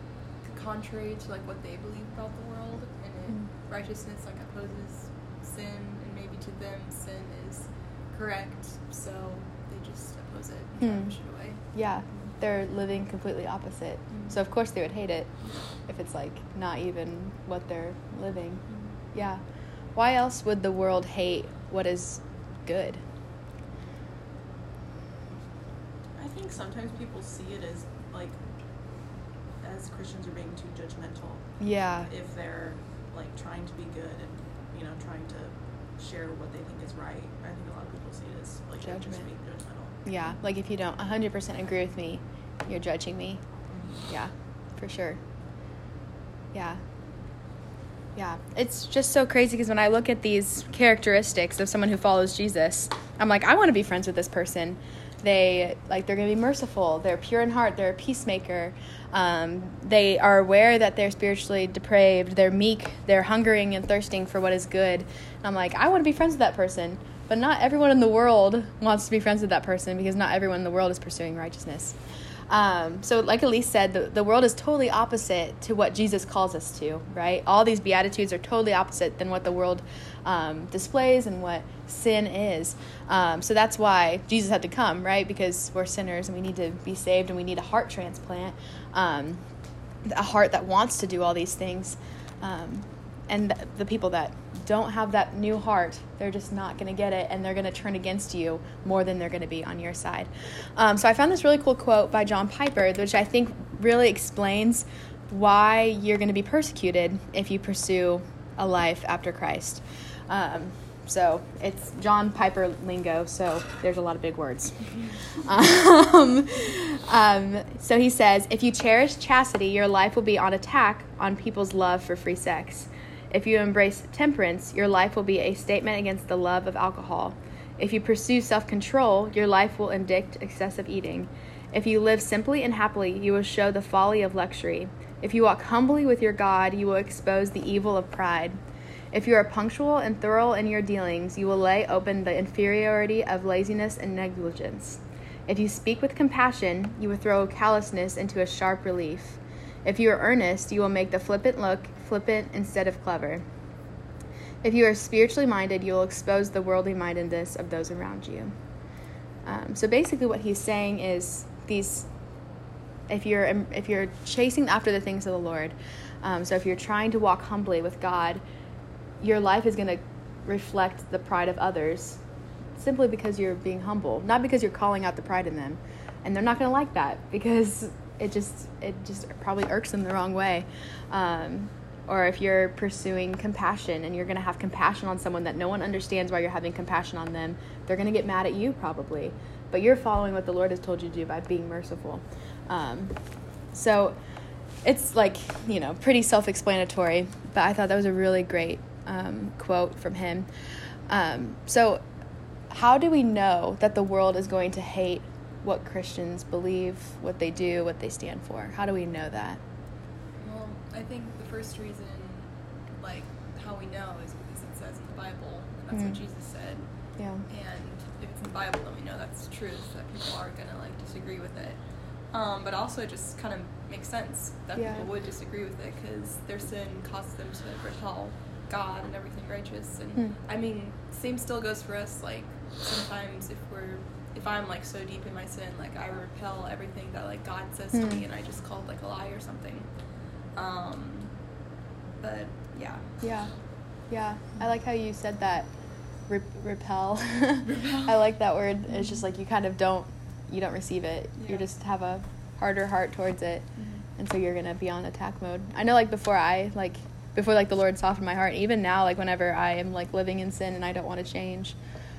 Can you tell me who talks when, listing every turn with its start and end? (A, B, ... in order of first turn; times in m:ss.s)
0:00.4-0:12.3 A
0:10.8-0:11.1 B
0:11.7-0:15.3 B
0:14.1-0:14.4 A
0:15.4-0:15.7 A
0:15.8-0:19.4 B
0:18.7-0:18.9 A
0:19.9-0:23.0 B
0:26.1-0:29.1 C
0:29.6-0:40.0 C
0:31.6-0:32.1 B
0:38.8-0:39.3 B
0:40.0-0:43.4 B
0:43.7-0:44.0 C
0:44.0-0:45.2 B
0:46.5-0:46.8 B
0:48.2-1:12.0 B
1:12.5-1:29.4 B
1:30.0-2:18.6 B
2:19.1-2:33.4 B
2:34.6-2:38.5 B
2:39.4-2:42.1 B
2:43.1-2:48.4 B
2:49.2-2:52.2 B
2:52.8-3:13.2 B
3:13.7-3:14.2 B
3:14.8-3:20.5 B
3:21.1-3:22.0 B
3:22.7-3:29.6 B
3:30.4-3:36.9 A
3:35.9-3:36.2 B
3:37.2-3:37.4 B
3:37.5-3:59.9 A
3:44.8-3:45.1 B
3:57.9-3:58.2 B
4:00.5-4:01.4 A
4:02.2-4:03.3 A
4:03.2-4:03.5 B
4:04.1-4:05.7 B
4:06.2-4:21.8 B
4:07.7-4:08.1 A
4:08.9-4:09.2 A
4:11.4-4:11.6 A
4:13.8-4:14.0 A